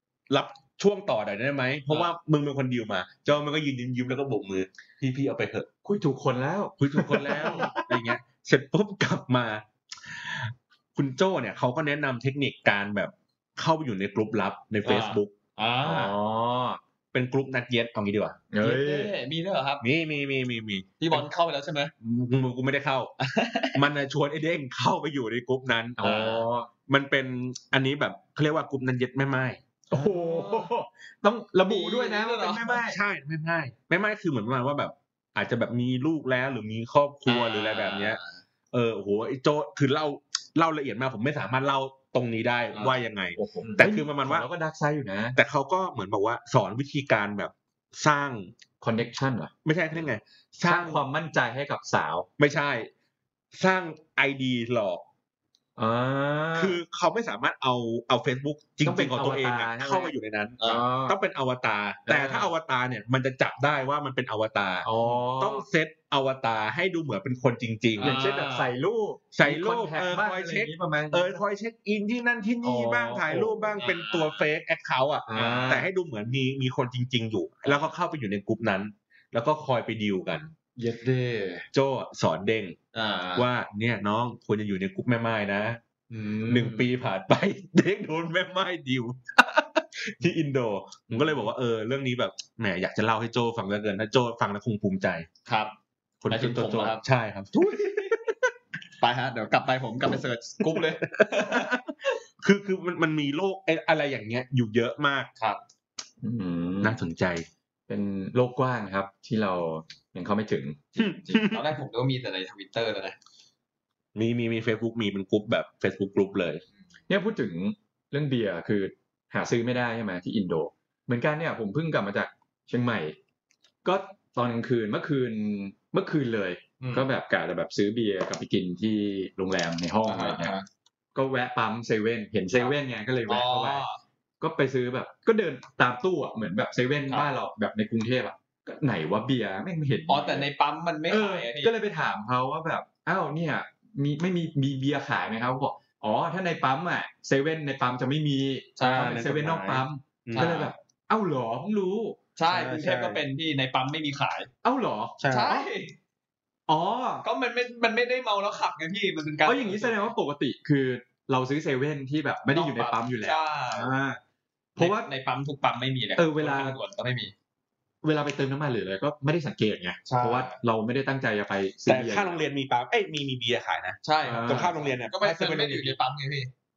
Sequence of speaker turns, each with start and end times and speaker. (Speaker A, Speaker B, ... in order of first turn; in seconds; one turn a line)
Speaker A: 0.3-5.7
Speaker B: 5.8-8.0
Speaker A: 6.8-15.3
Speaker C: 14.8-16.1
Speaker B: 15.8-16.8
Speaker A: 17.1-18.4
Speaker B: 18.5-19.1
Speaker C: 18.6-19.9
Speaker A: 19.8-21.2
Speaker C: 21.0-21.9
Speaker A: 22.0-23.1
Speaker C: 23.2-23.8
Speaker A: 23.8-26.1
Speaker B: 26.0-26.7
Speaker C: 26.0-26.4
Speaker A: 26.9-29.6
Speaker B: 29.9-33.0
Speaker C: 29.9-30.7
Speaker C: 31.7-32.8
Speaker A: 32.6-38.2
Speaker C: 37.3-38.4
Speaker A: 38.7-44.5
Speaker B: 43.4-45.4
Speaker A: 45.4-48.5
Speaker B: 48.8-49.5
Speaker A: 49.6-51.0
Speaker B: 50.6-52.3
Speaker A: 52.4-52.9
Speaker A: 53.5-55.0
Speaker B: 55.8-56.8
Speaker A: 56.5-68.2
Speaker B: 58.8-60.1
Speaker C: 60.6-61.1
Speaker B: 60.7-61.0
Speaker B: 62.1-62.5
Speaker B: 64.8-65.6
Speaker C: 68.0-68.7
Speaker B: 68.0-71.3
Speaker A: 69.3-80.5
Speaker B: 72.6-73.8
Speaker C: 73.8-74.4
Speaker C: 75.3-75.9
Speaker B: 75.3-75.8
Speaker C: 80.8-81.7
Speaker A: 81.7-82.8
Speaker C: 82.9-83.5
Speaker A: 83.4-85.8
Speaker C: 86.1-86.9
Speaker A: 86.5-95.3
Speaker C: 95.5-95.7
Speaker A: 96.2-98.3
Speaker C: 96.3-97.0
Speaker C: 97.5-98.2
Speaker C: 99.0-101.8
Speaker A: 100.7-105.3
Speaker B: 106.2-107.0
Speaker A: 106.8-107.5
Speaker B: 107.9-110.8
Speaker C: 110.9-113.2
Speaker A: 111.0-111.7
Speaker A: 114.2-116.6
Speaker B: 117.1-123.2
Speaker B: 123.8-130.5
Speaker C: 126.8-127.1
Speaker C: 130.1-130.7
Speaker B: 131.2-133.8
Speaker C: 132.5-134.0
Speaker B: 134.4-140.5
Speaker C: 140.1-141.7
Speaker B: 141.1-152.2
Speaker C: 148.8-149.2
Speaker A: 148.8-150.6
Speaker C: 150.3-150.7
Speaker C: 152.3-154.5
Speaker A: 152.5-153.2
Speaker B: 154.6-155.7
Speaker A: 155.2-155.6
Speaker C: 155.3-155.9
Speaker B: 156.7-157.2
Speaker C: 157.2-160.1
Speaker B: 159.4-164.2
Speaker C: 162.5-163.9
Speaker B: 164.8-165.1
Speaker C: 164.8-167.3
Speaker B: 166.2-166.8
Speaker B: 168.0-172.4
Speaker C: 170.1-170.6
Speaker A: 171.8-176.0
Speaker C: 174.0-176.5
Speaker B: 174.2-174.8